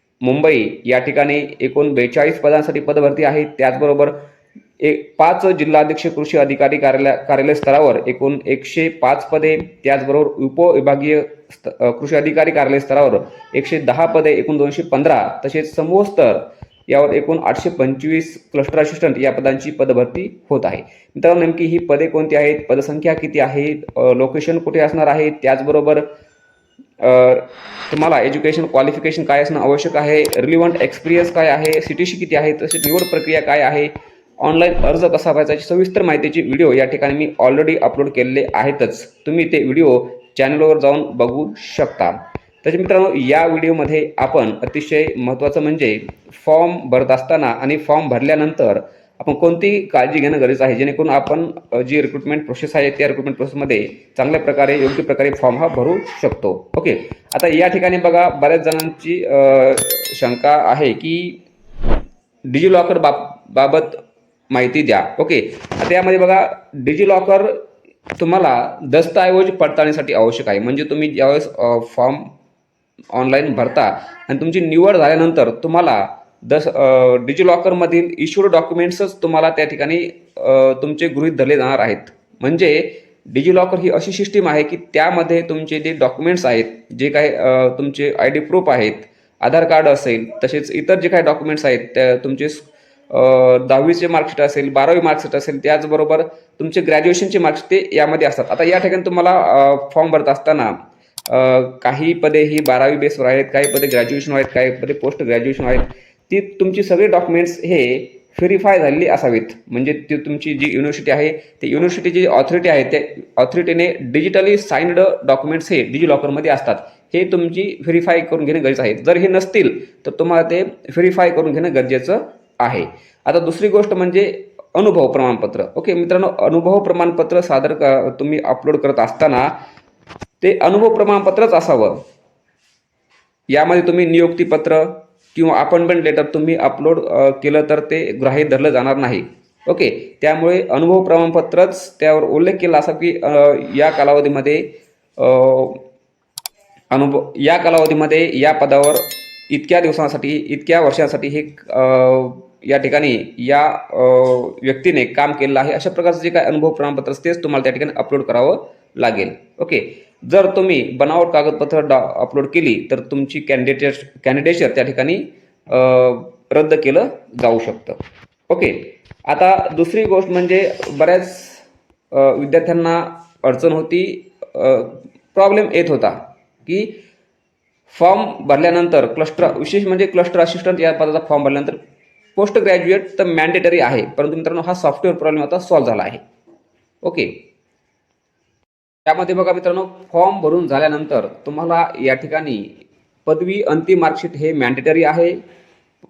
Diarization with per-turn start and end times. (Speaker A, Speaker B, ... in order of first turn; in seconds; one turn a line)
Speaker A: 0.2-4.2
Speaker A: 4.8-26.1
Speaker A: 27.0-61.4
Speaker A: 62.5-67.5
Speaker A: 68.2-72.3
Speaker A: 73.1-100.7
Speaker A: 101.3-129.5
Speaker A: 130.4-132.0
Speaker A: 133.5-145.8
Speaker A: 146.9-168.0
Speaker A: 168.5-177.0
Speaker A: 177.9-181.8
Speaker A: 182.4-186.2
Speaker A: 187.0-187.4
Speaker A: 189.1-195.4